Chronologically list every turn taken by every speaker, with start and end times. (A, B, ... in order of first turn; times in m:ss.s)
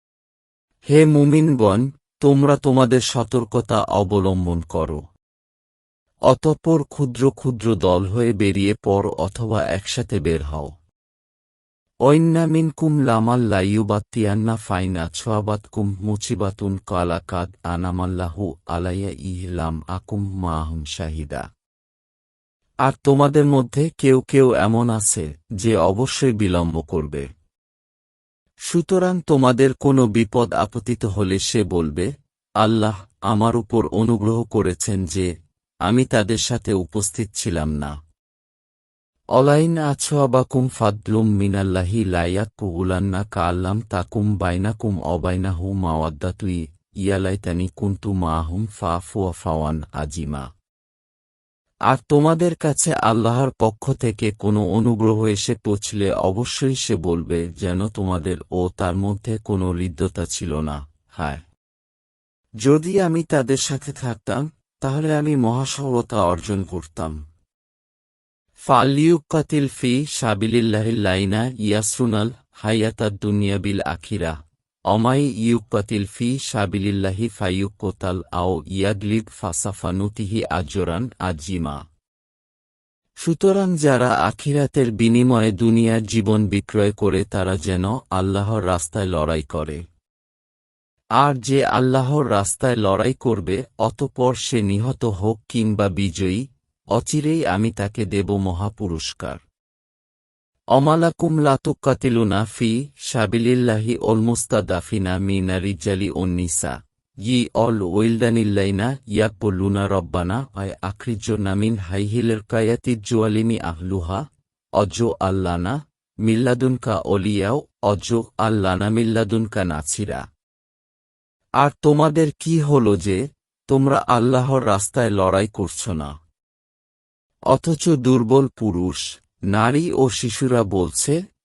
0:00.9-0:05.0 A
0:06.3-0:10.7 A
0:12.0-0:21.4 A
0:22.8-0:27.3 A
0:28.7-0:32.1 A
0:32.6-0:35.3 A
0:35.9-0:37.9 A
0:39.4-0:50.5 A
0:51.9-1:01.4 A
1:02.6-1:07.2 A
1:08.7-1:14.4 A
1:14.9-1:21.8 A
1:23.2-1:29.8 A
1:31.2-1:39.4 A
1:40.7-1:54.2 A
1:54.8-2:00.2 A
2:01.6-2:06.1 A
2:07.5-2:11.2 A